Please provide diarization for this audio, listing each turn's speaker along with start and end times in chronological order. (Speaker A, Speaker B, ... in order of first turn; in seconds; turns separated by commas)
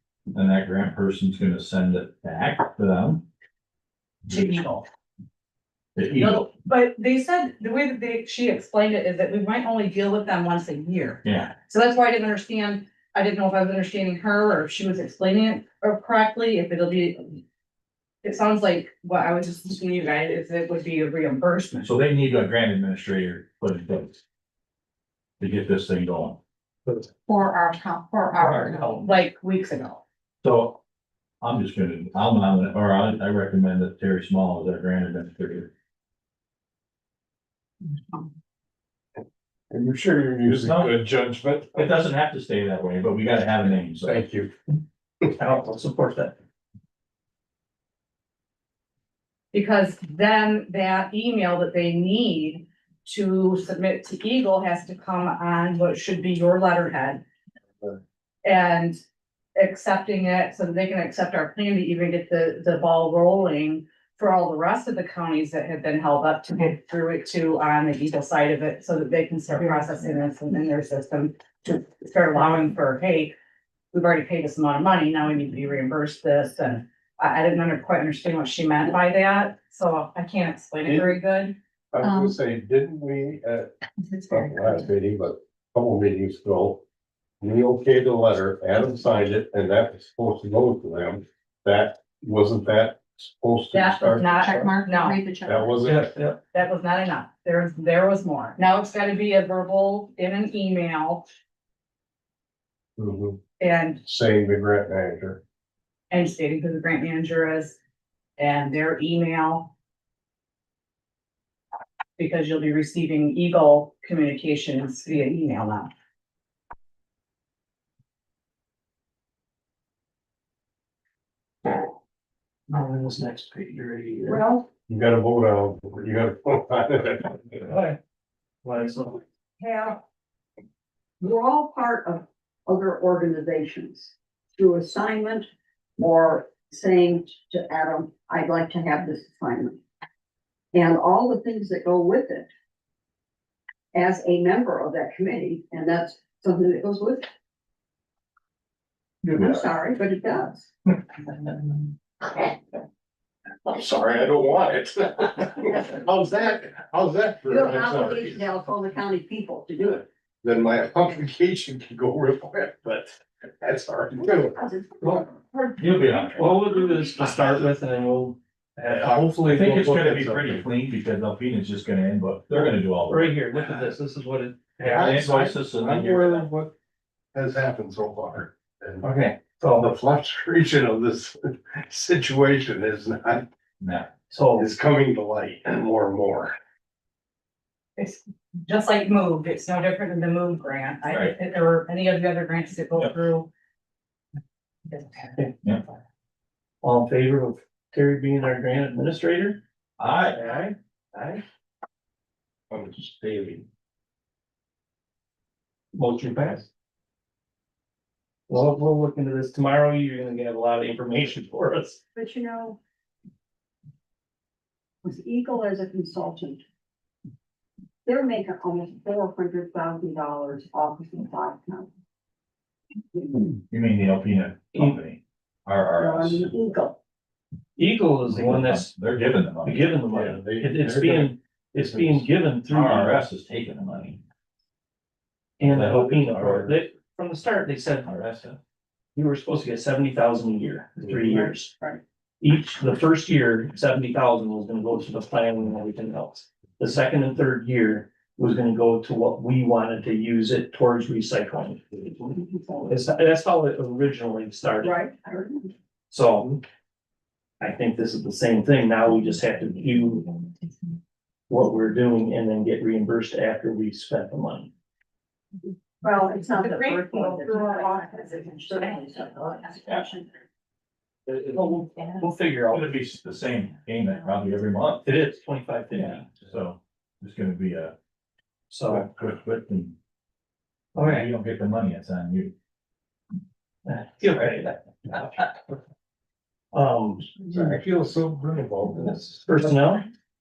Speaker A: 0.3-3.2, Speaker B: 4.3-4.8, Speaker A: 6.0-6.5, Speaker B: 6.2-17.4, Speaker A: 11.2-11.5, Speaker B: 18.2-21.9, Speaker A: 21.8-24.2, Speaker A: 25.4-26.4, Speaker C: 27.3-29.1, Speaker D: 28.6-28.9, Speaker B: 29.0-30.0, Speaker A: 30.4-30.8, Speaker A: 31.4-35.7, Speaker E: 39.7-41.9, Speaker A: 40.6-41.0, Speaker A: 41.7-44.2, Speaker E: 44.0-44.5, Speaker D: 45.4-46.4, Speaker B: 49.5-57.2, Speaker B: 58.4-59.0, Speaker B: 59.5-73.3, Speaker B: 73.9-81.6, Speaker E: 80.9-81.2, Speaker E: 81.9-83.7, Speaker C: 82.0-82.4, Speaker C: 84.0-84.9, Speaker E: 84.3-86.8, Speaker E: 87.4-94.0, Speaker B: 93.7-95.2, Speaker C: 94.0-95.8, Speaker E: 95.5-96.1, Speaker D: 95.8-96.4, Speaker B: 96.5-101.3, Speaker E: 103.0-103.4, Speaker B: 103.6-104.0, Speaker E: 104.0-105.4, Speaker B: 106.1-107.8, Speaker B: 108.4-109.7, Speaker B: 112.2-115.9, Speaker D: 122.7-124.4, Speaker F: 124.3-124.7, Speaker E: 124.9-127.5, Speaker D: 127.6-128.0, Speaker D: 128.6-129.2, Speaker F: 129.6-130.0, Speaker F: 131.2-135.5, Speaker F: 136.0-139.8, Speaker F: 140.7-142.5, Speaker F: 143.9-147.3, Speaker A: 149.3-149.6, Speaker F: 149.3-150.7, Speaker E: 153.7-158.5, Speaker F: 157.5-160.1, Speaker E: 160.4-164.6, Speaker F: 164.2-165.7, Speaker A: 165.8-166.5, Speaker D: 166.4-170.4, Speaker E: 169.1-169.7, Speaker A: 169.5-173.4, Speaker D: 173.1-175.2, Speaker E: 174.8-176.7, Speaker A: 174.8-176.5, Speaker E: 177.3-179.1, Speaker D: 179.0-179.9, Speaker E: 179.8-183.5, Speaker A: 183.8-184.1, Speaker D: 184.3-184.7, Speaker E: 184.6-186.6, Speaker B: 188.0-193.5, Speaker A: 191.1-191.3, Speaker B: 194.9-195.3, Speaker D: 196.8-199.6, Speaker A: 200.0-200.4, Speaker D: 200.3-201.4, Speaker E: 202.7-203.7, Speaker D: 205.9-206.7, Speaker D: 208.5-212.0, Speaker F: 212.2-212.8, Speaker F: 215.0-216.6, Speaker F: 218.1-221.9, Speaker F: 223.1-223.4, Speaker A: 223.7-226.5, Speaker F: 226.0-227.0, Speaker D: 227.8-228.9, Speaker A: 228.3-229.9, Speaker D: 229.6-233.2, Speaker E: 230.1-232.3, Speaker A: 232.7-234.2, Speaker D: 235.6-238.1, Speaker A: 235.6-236.8, Speaker A: 238.0-238.6, Speaker D: 239.2-241.8, Speaker F: 241.3-242.0, Speaker D: 242.4-252.1, Speaker F: 252.2-253.0, Speaker D: 252.9-255.0, Speaker F: 254.8-255.7, Speaker D: 256.1-256.6, Speaker D: 257.6-260.5, Speaker D: 261.5-264.7, Speaker F: 266.0-270.3, Speaker B: 266.6-269.0, Speaker D: 271.3-272.9, Speaker A: 272.7-275.1, Speaker D: 275.0-276.3, Speaker A: 275.9-277.9, Speaker D: 278.7-279.1, Speaker A: 278.9-279.9, Speaker D: 280.9-281.3, Speaker A: 280.9-282.5, Speaker D: 283.9-285.6, Speaker D: 286.7-287.3, Speaker E: 287.5-289.5, Speaker D: 289.4-290.0